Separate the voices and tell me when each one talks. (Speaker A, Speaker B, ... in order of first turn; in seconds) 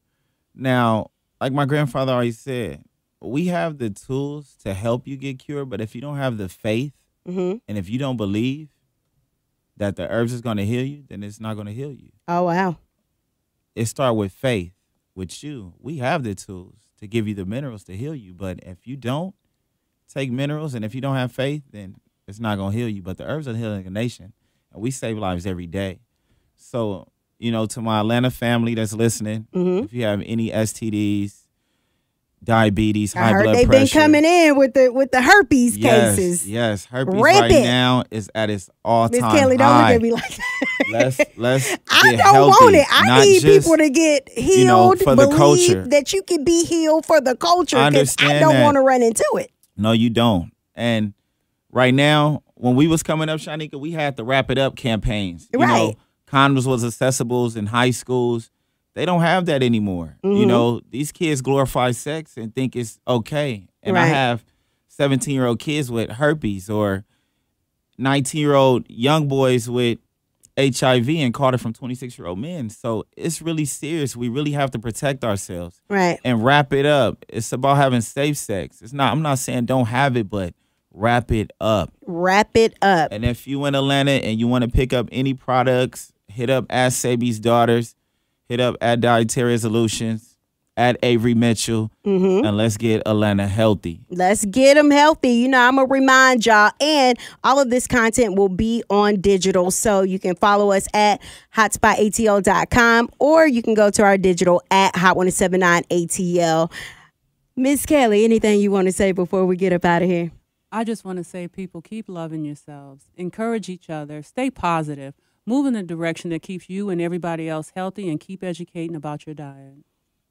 Speaker A: 0.5-7.0, 7.7-8.7, 9.8-12.1, 13.8-19.3, 20.1-26.0, 26.6-31.4, 32.4-34.2, 35.7-40.0, 40.9-43.8, 44.5-45.9, 47.7-48.7, 49.8-51.1, 51.7-67.0, 68.0-70.0, 70.6-81.9, 83.1-87.9, 88.5-91.9, 92.4-94.0
Speaker B: 7.3-7.6, 12.3-12.8, 29.5-29.9, 33.2-36.5, 37.0-37.7, 39.1-40.8, 41.9-49.5, 55.5-55.9, 60.2-60.7, 63.9-64.2, 75.9-76.2, 82.1-83.1, 92.0-92.5, 94.1-106.7, 107.6-110.3
Speaker C: 110.7-119.8